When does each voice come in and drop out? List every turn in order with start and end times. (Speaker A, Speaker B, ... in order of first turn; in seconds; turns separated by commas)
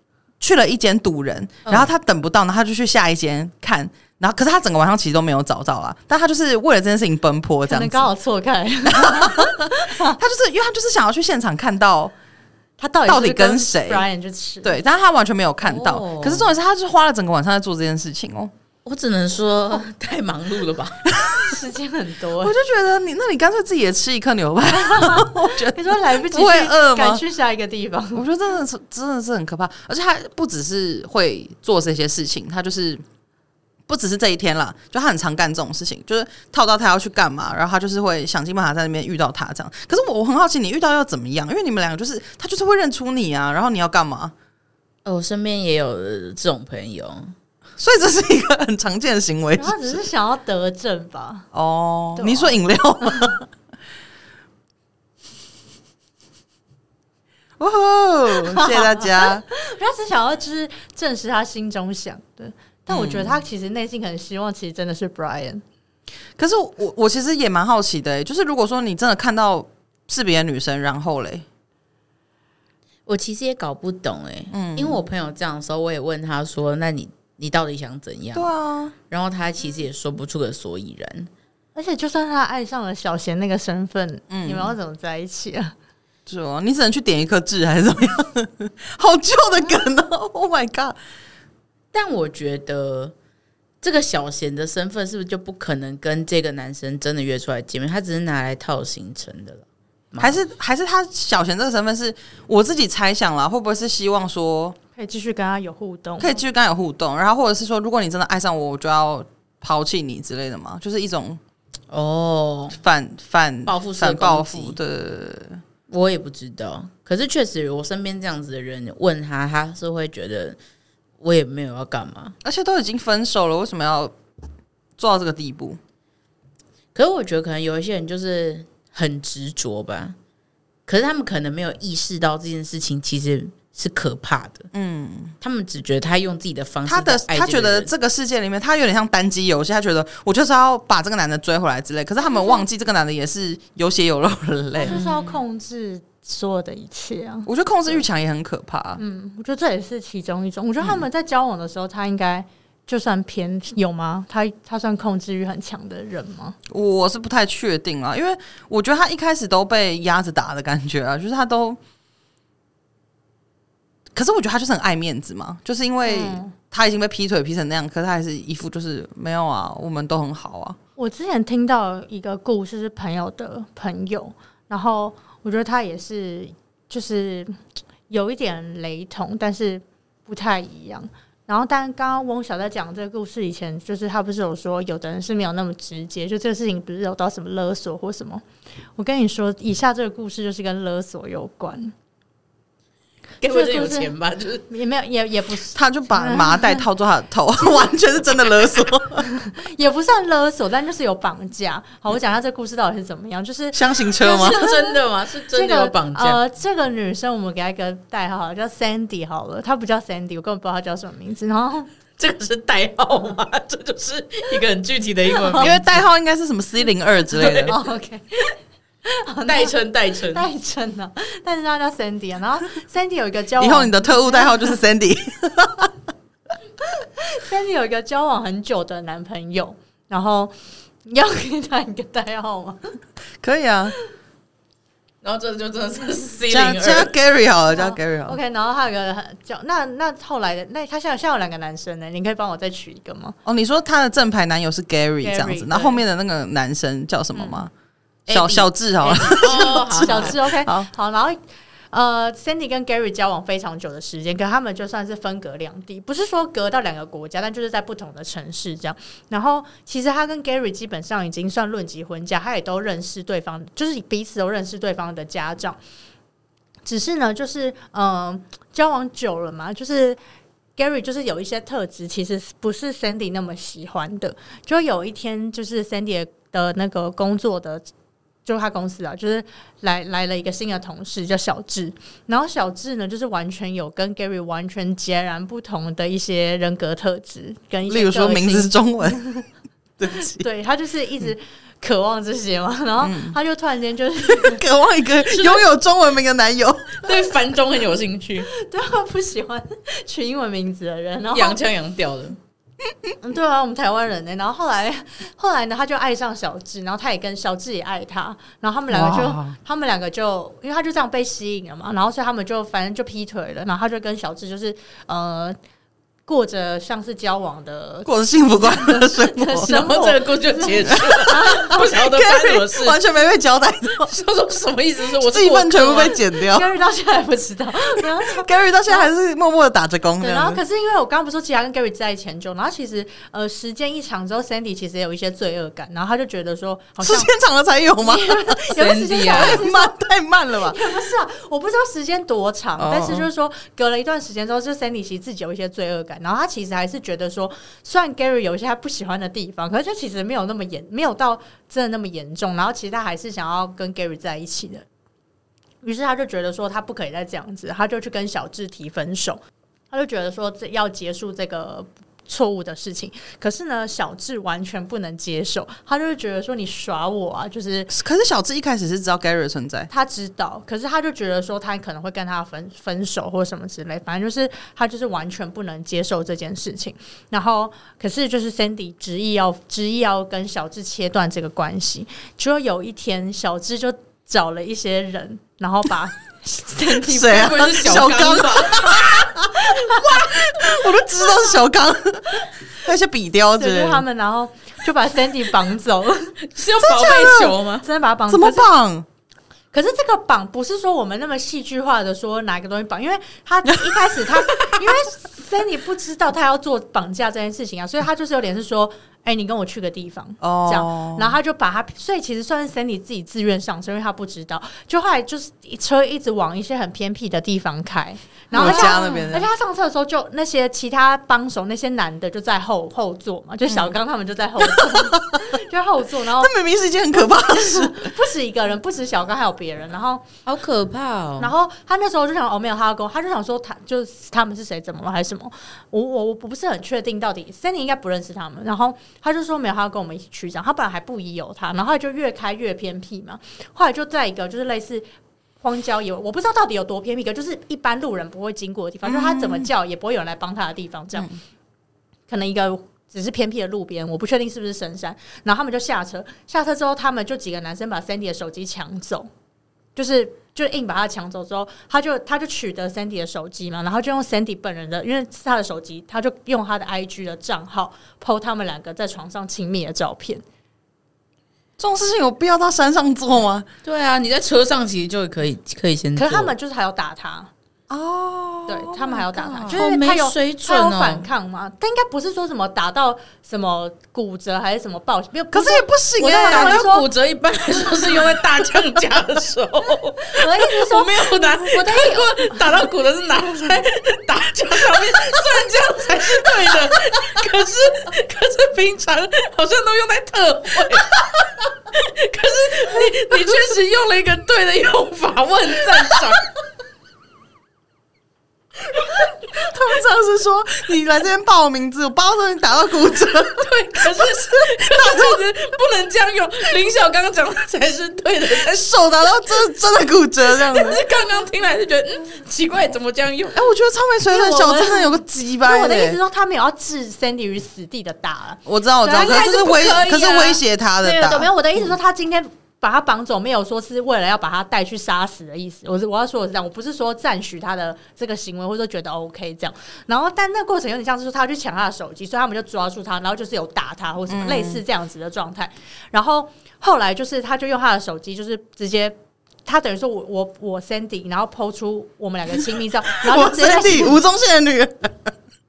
Speaker A: 0.4-8.1, Speaker B: 7.7-10.2, Speaker A: 8.8-12.1, Speaker B: 12.8-14.8, Speaker A: 13.1-14.1, Speaker A: 14.6-18.5, Speaker C: 15.6-16.5, Speaker C: 18.9-21.1, Speaker A: 21.1-21.6, Speaker B: 21.4-22.6, Speaker A: 22.4-27.2, Speaker B: 24.8-28.2, Speaker A: 28.1-33.0, Speaker A: 33.9-44.3, Speaker C: 45.0-47.3, Speaker A: 47.8-50.0, Speaker B: 49.6-51.5, Speaker A: 51.5-53.5, Speaker B: 52.2-53.4, Speaker A: 57.6-59.5, Speaker B: 58.3-65.6, Speaker A: 62.9-63.4, Speaker A: 66.4-71.5, Speaker C: 73.1-78.5, Speaker A: 74.5-75.0, Speaker A: 78.3-79.0, Speaker C: 79.1-81.3, Speaker B: 81.8-85.7, Speaker A: 84.3-84.8, Speaker A: 86.3-91.0, Speaker C: 91.9-93.1, Speaker C: 93.8-100.4, Speaker A: 100.2-104.8, Speaker B: 105.0-106.4, Speaker A: 106.2-111.4, Speaker C: 111.9-112.8, Speaker A: 112.7-115.6, Speaker C: 113.7-114.8, Speaker C: 115.9-120.6, Speaker C: 121.2-122.3, Speaker A: 122.4-124.2, Speaker A: 125.0-125.8, Speaker C: 127.0-130.2, Speaker C: 130.9-134.7, Speaker A: 134.7-135.3, Speaker C: 135.4-137.9, Speaker A: 136.9-145.0, Speaker B: 142.3-142.6, Speaker B: 144.8-148.0, Speaker C: 144.9-145.4, Speaker A: 147.5-149.0, Speaker B: 149.0-156.6, Speaker A: 156.7-161.8, Speaker A: 164.2-170.8, Speaker B: 166.1-166.5, Speaker B: 171.0-177.6, Speaker B: 178.1-188.4, Speaker B: 189.0-191.9, Speaker C: 193.4-194.7, Speaker B: 193.4-194.1, Speaker B: 194.7-196.9, Speaker A: 195.7-199.3, Speaker B: 197.6-197.9, Speaker B: 199.2-211.9, Speaker A: 203.7-204.6, Speaker C: 204.2-206.4, Speaker C: 212.2-215.8, Speaker B: 215.3-216.0, Speaker A: 215.6-217.8, Speaker B: 217.4-218.2, Speaker C: 217.4-217.7, Speaker B: 219.1-224.8, Speaker C: 219.4-220.5, Speaker A: 223.6-225.9, Speaker B: 226.8-232.9, Speaker A: 233.4-233.9, Speaker C: 235.2-237.1, Speaker A: 236.5-238.4, Speaker B: 237.7-243.4, Speaker A: 243.4-247.7, Speaker B: 245.2-246.0, Speaker B: 247.3-247.7, Speaker C: 248.3-250.4, Speaker A: 248.3-250.9, Speaker B: 249.3-251.4, Speaker B: 251.9-265.8, Speaker B: 266.9-270.2, Speaker B: 270.8-277.9, Speaker B: 278.4-289.4, Speaker A: 287.9-289.3, Speaker A: 290.0-290.4, Speaker B: 290.0-294.6, Speaker A: 293.0-293.4, Speaker A: 294.2-297.1, Speaker B: 295.2-295.7, Speaker C: 297.0-298.5, Speaker B: 298.5-301.6, Speaker C: 301.3-302.4, Speaker B: 303.2-315.6, Speaker A: 308.9-309.6, Speaker B: 316.3-321.9, Speaker A: 318.1-319.9, Speaker C: 319.7-323.0, Speaker A: 320.9-324.1, Speaker C: 324.0-326.1, Speaker A: 325.2-326.7, Speaker B: 326.1-329.1, Speaker A: 328.2-330.6, Speaker B: 330.2-337.3, Speaker A: 337.0-340.8, Speaker B: 338.0-339.9, Speaker C: 338.8-339.6, Speaker B: 340.5-354.9, Speaker A: 342.8-343.2, Speaker B: 355.8-359.4, Speaker B: 359.9-367.9, Speaker A: 367.9-369.9, Speaker B: 369.9-391.6, Speaker A: 387.0-394.1, Speaker C: 387.3-389.0, Speaker B: 393.6-398.7, Speaker C: 396.4-397.9, Speaker A: 396.9-397.6, Speaker A: 398.3-399.1, Speaker B: 399.7-426.5, Speaker A: 410.4-411.4, Speaker A: 418.5-419.5, Speaker C: 418.6-419.3, Speaker A: 423.7-423.9, Speaker A: 424.6-425.6, Speaker A: 426.4-428.1, Speaker B: 427.1-430.3, Speaker C: 430.5-431.5, Speaker B: 431.4-445.1, Speaker B: 445.6-451.3, Speaker A: 449.1-449.7, Speaker B: 452.3-459.3, Speaker B: 460.0-470.4, Speaker A: 471.8-473.7, Speaker C: 473.8-476.5, Speaker B: 476.2-477.5, Speaker A: 477.9-479.8, Speaker B: 478.7-487.1, Speaker C: 479.7-481.3, Speaker A: 485.5-486.9, Speaker C: 486.3-506.5, Speaker B: 490.3-492.8, Speaker A: 509.5-513.7, Speaker C: 513.6-518.9, Speaker A: 514.9-515.4, Speaker A: 518.7-521.0, Speaker C: 520.5-523.6, Speaker A: 523.5-526.2, Speaker B: 524.3-530.4, Speaker A: 528.7-531.5, Speaker C: 529.1-530.6, Speaker B: 531.0-554.2, Speaker A: 544.3-544.8, Speaker A: 553.2-555.3